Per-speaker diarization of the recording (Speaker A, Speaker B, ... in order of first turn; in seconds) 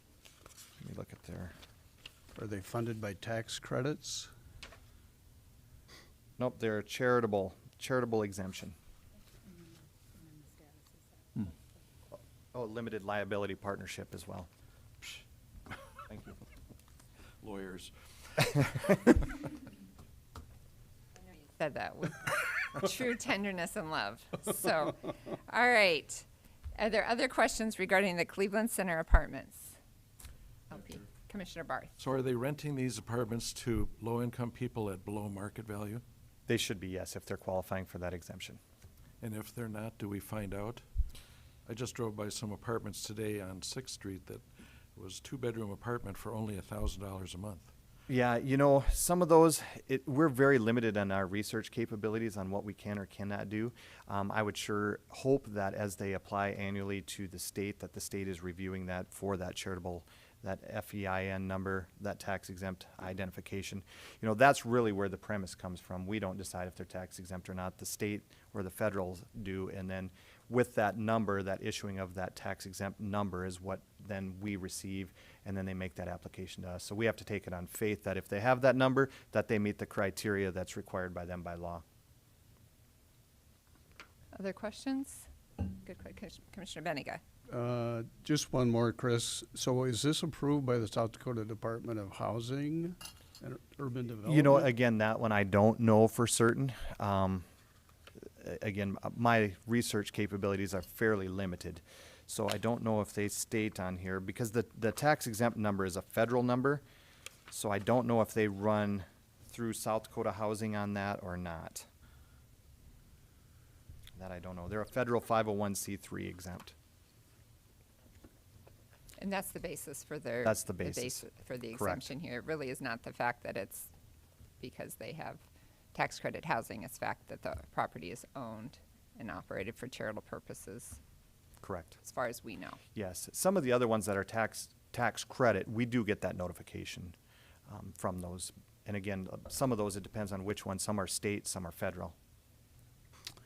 Speaker A: 0.8-1.5, 6.4-8.7, 12.5-14.5, 16.1-16.4, 36.5-38.6, 48.1-81.8, 94.2-97.5, 98.4-106.8, 107.5-111.9, 114.2-116.7, 120.4-122.1, 131.6-132.0, 132.9-137.2, 137.7-142.1
Speaker B: 2.3-4.3, 87.5-94.7
Speaker C: 17.4-19.2, 32.0-36.0, 39.2-40.8, 41.6-44.4, 45.0-47.7
Speaker D: 21.6-29.8, 30.7-31.9, 84.3-87.2, 119.2-123.9, 124.6-125.4, 125.9-131.0, 132.0-132.8